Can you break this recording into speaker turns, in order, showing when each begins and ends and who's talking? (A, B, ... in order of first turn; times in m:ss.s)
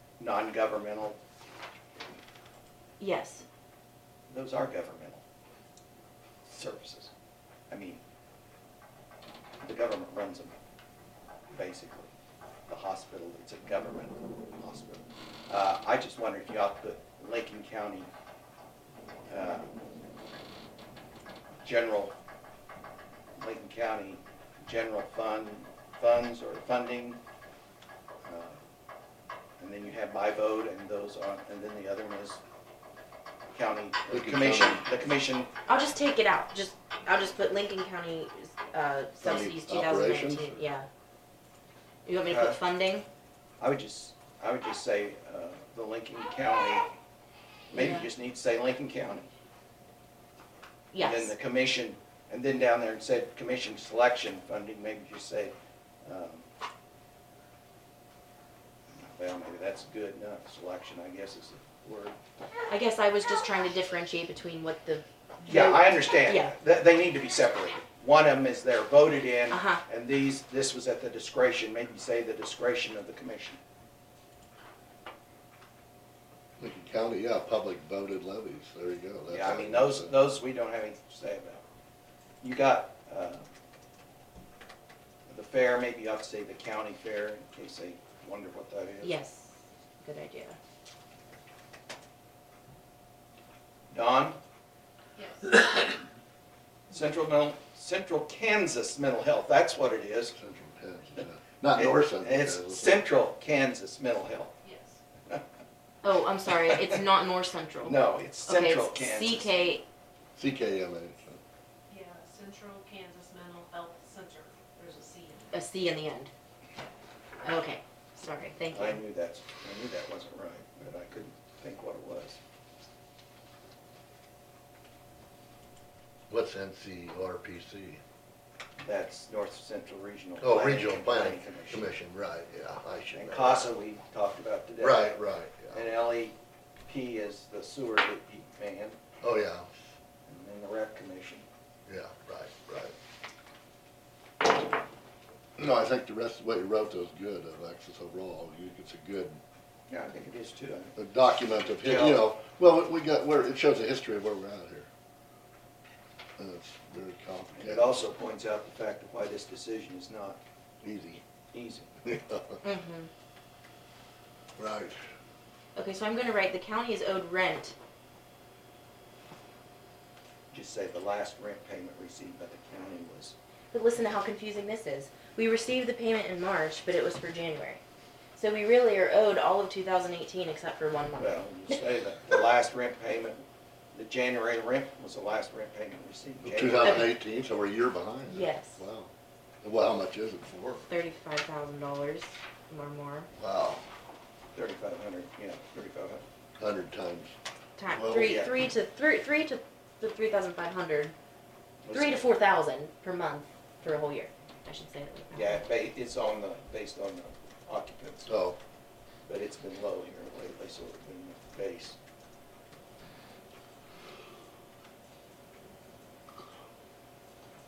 0:00.2-0:01.2 A
0:03.0-0:03.4 B
0:04.3-0:05.2 A
0:06.4-0:07.1 A
0:07.7-0:08.0 A
0:09.6-0:10.6 A
0:11.5-0:12.1 A
0:12.7-0:18.1 A
0:19.3-0:19.7 A
0:21.6-0:22.2 A
0:23.4-0:27.2 A
0:28.2-0:28.6 A
0:29.6-0:32.4 A
0:33.5-0:35.5 A
0:34.1-0:34.8 C
0:35.7-0:40.9 B
0:39.2-0:40.5 C
0:42.1-0:43.1 B
0:42.2-0:42.6 A
0:43.6-0:46.9 A
0:47.7-0:49.3 A
0:47.7-0:48.1 B
0:50.9-0:51.3 B
0:51.0-0:56.5 A
0:58.9-1:02.2 A
1:02.7-1:06.5 B
1:05.5-1:13.6 A
1:09.5-1:09.8 B
1:16.6-1:20.1 C
1:19.3-1:21.6 A
1:22.4-1:23.5 A
1:25.3-1:29.2 A
1:29.0-1:30.6 B
1:33.9-1:34.4 A
1:35.2-1:35.6 D
1:36.9-1:40.4 A
1:40.3-1:43.0 C
1:41.7-1:44.6 A
1:44.6-1:45.0 D
1:46.0-1:49.8 B
1:46.5-1:47.0 A
1:47.8-1:49.8 A
1:50.4-1:51.4 C
1:51.9-1:55.6 D
1:55.5-1:56.3 B
1:57.4-1:59.0 B
1:58.7-2:02.4 A
2:06.3-2:08.0 C
2:08.8-2:11.9 A
2:10.4-2:13.7 C
2:13.1-2:15.2 A
2:14.8-2:15.8 C
2:15.7-2:19.0 A
2:19.2-2:19.7 C
2:20.3-2:21.4 A
2:21.9-2:22.9 C
2:25.6-2:29.4 C
2:29.9-2:31.0 A
2:31.0-2:34.9 C
2:31.5-2:32.3 A
2:36.4-2:37.9 C
2:37.5-2:40.4 A
2:40.8-2:41.2 C
2:41.5-2:41.9 A
2:42.0-2:42.6 C
2:42.6-2:43.1 B
2:44.6-2:45.0 C
2:45.8-2:47.8 B
2:50.5-2:53.4 A
2:53.7-2:57.8 B
2:58.4-3:01.8 B
3:01.2-3:07.1 A
3:06.4-3:09.1 C
3:08.3-3:08.8 B
3:09.6-3:10.8 C
3:10.9-3:13.3 B
3:13.4-3:13.8 C
3:14.6-3:16.2 A
3:16.6-3:17.4 C
3:17.8-3:21.1 B
3:17.9-3:18.4 C
3:18.2-3:18.5 A
3:21.8-3:22.2 A
3:21.9-3:25.6 B
3:25.3-3:28.3 A
3:28.3-3:28.6 C
3:29.3-3:32.0 A